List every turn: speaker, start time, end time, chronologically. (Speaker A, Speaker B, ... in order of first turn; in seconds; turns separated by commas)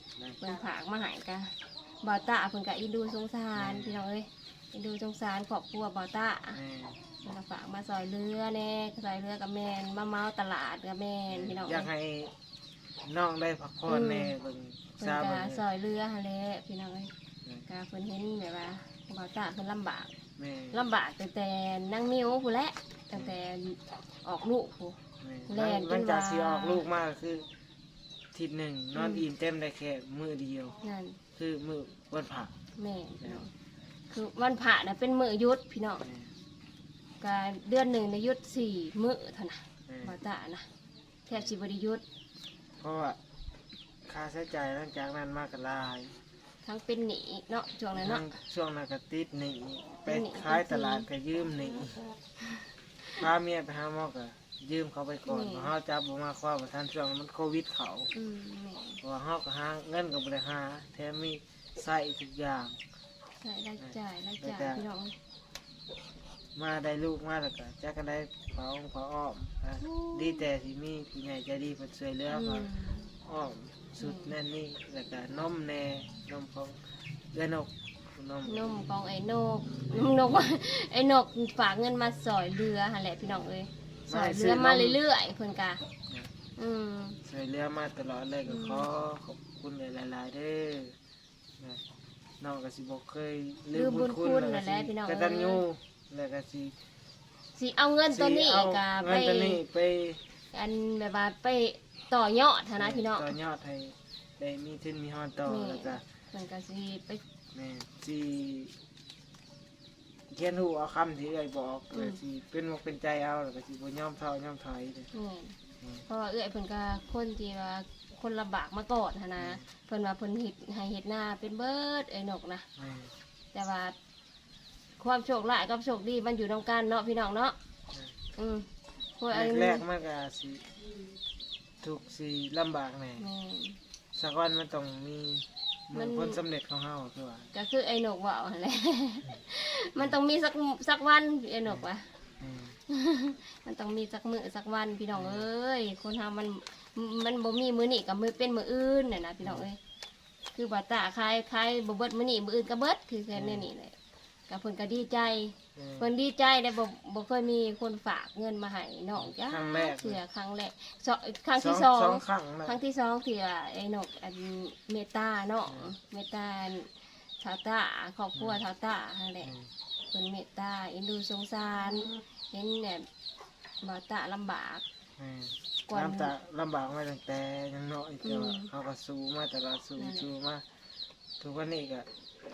Speaker A: 0.1-0.4, Speaker B: 0.4-6.6, Speaker A: 3.5-4.0, Speaker A: 6.5-7.0, Speaker B: 7.2-11.9, Speaker A: 11.3-12.3, Speaker A: 13.0-15.6, Speaker B: 13.9-14.3, Speaker B: 15.0-17.1, Speaker B: 17.7-20.1, Speaker A: 20.4-20.8, Speaker B: 20.7-26.8, Speaker A: 25.2-27.5, Speaker A: 28.3-30.8, Speaker B: 28.9-29.2, Speaker B: 30.8-31.2, Speaker A: 31.4-32.5, Speaker B: 32.8-33.5, Speaker B: 34.1-36.0, Speaker A: 36.0-36.3, Speaker B: 37.2-40.6, Speaker A: 39.9-40.2, Speaker B: 41.3-42.0, Speaker A: 42.8-43.2, Speaker A: 44.1-46.2, Speaker B: 46.6-48.2, Speaker A: 47.9-52.0, Speaker B: 50.0-51.1, Speaker B: 52.4-53.2, Speaker A: 53.1-58.1, Speaker B: 55.3-55.7, Speaker B: 58.1-59.0, Speaker A: 59.0-62.8, Speaker B: 63.4-65.2, Speaker A: 63.8-64.8, Speaker A: 66.5-72.7, Speaker B: 69.8-70.5, Speaker B: 72.3-73.1, Speaker A: 73.2-76.8, Speaker B: 74.0-74.3, Speaker A: 77.3-78.7, Speaker B: 78.5-85.8, Speaker A: 84.1-85.0, Speaker B: 86.6-87.2, Speaker A: 87.2-91.0, Speaker B: 88.5-88.8, Speaker A: 92.4-96.7, Speaker B: 93.7-95.6, Speaker B: 97.5-99.6, Speaker A: 98.1-100.2, Speaker B: 100.5-103.3, Speaker A: 102.7-106.0, Speaker B: 105.5-107.2, Speaker A: 107.5-108.7, Speaker A: 110.3-115.1, Speaker B: 111.9-112.2, Speaker B: 115.1-115.5, Speaker B: 116.1-122.7, Speaker A: 119.4-119.6, Speaker A: 122.8-123.1, Speaker B: 123.5-123.9, Speaker B: 125.0-127.5, Speaker B: 128.3-129.8, Speaker A: 129.3-130.7, Speaker A: 131.8-133.3, Speaker B: 133.2-133.8, Speaker A: 134.1-137.5, Speaker B: 135.9-136.4, Speaker B: 137.5-142.1, Speaker A: 142.4-142.8, Speaker B: 142.9-149.8, Speaker A: 145.1-145.5, Speaker B: 150.5-153.9, Speaker A: 153.3-153.7, Speaker B: 154.5-169.5, Speaker A: 155.8-156.1, Speaker A: 159.2-160.2, Speaker A: 161.6-162.8, Speaker A: 169.4-169.7, Speaker B: 170.1-173.1, Speaker B: 173.8-174.8, Speaker A: 175.2-180.6, Speaker B: 175.9-176.3, Speaker B: 178.2-178.7, Speaker B: 180.0-180.3, Speaker A: 181.4-182.1